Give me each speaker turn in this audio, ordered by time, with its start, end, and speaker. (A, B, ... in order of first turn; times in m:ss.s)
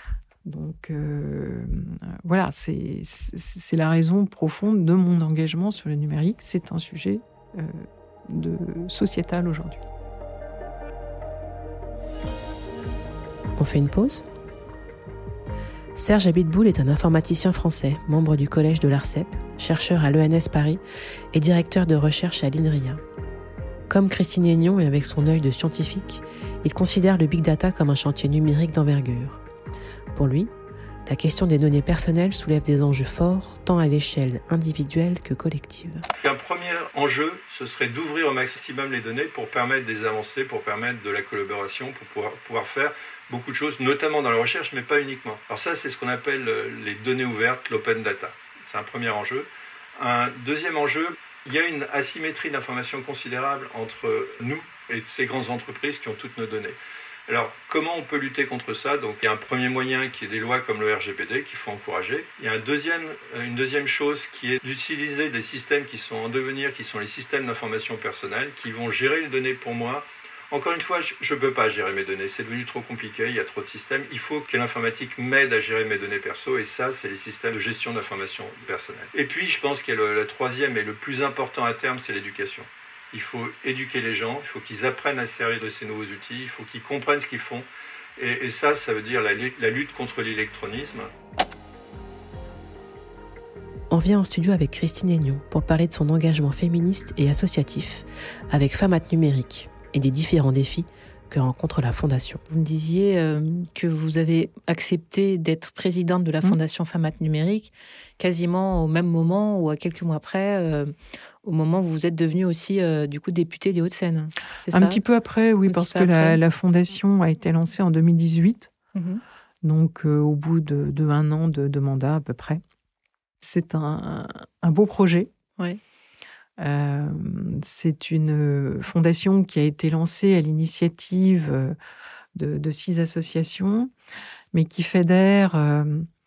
0:00.4-0:09.8 A
0:13.6-0:14.3 B
0:15.9-0:20.8 B
0:21.3-0:23.0 B
0:23.9-0:29.4 B
0:30.1-0:30.5 B
0:31.0-0:36.0 B
0:36.2-0:56.8 C
0:57.3-1:31.1 C
1:33.9-1:42.4 B
1:42.5-1:55.0 D
1:54.7-1:58.7 A
1:55.7-1:56.4 D
1:58.9-1:59.2 D
1:59.6-2:02.6 A
2:03.4-2:05.3 A
2:06.6-2:11.8 A
2:12.3-2:13.9 A
2:14.5-2:16.1 A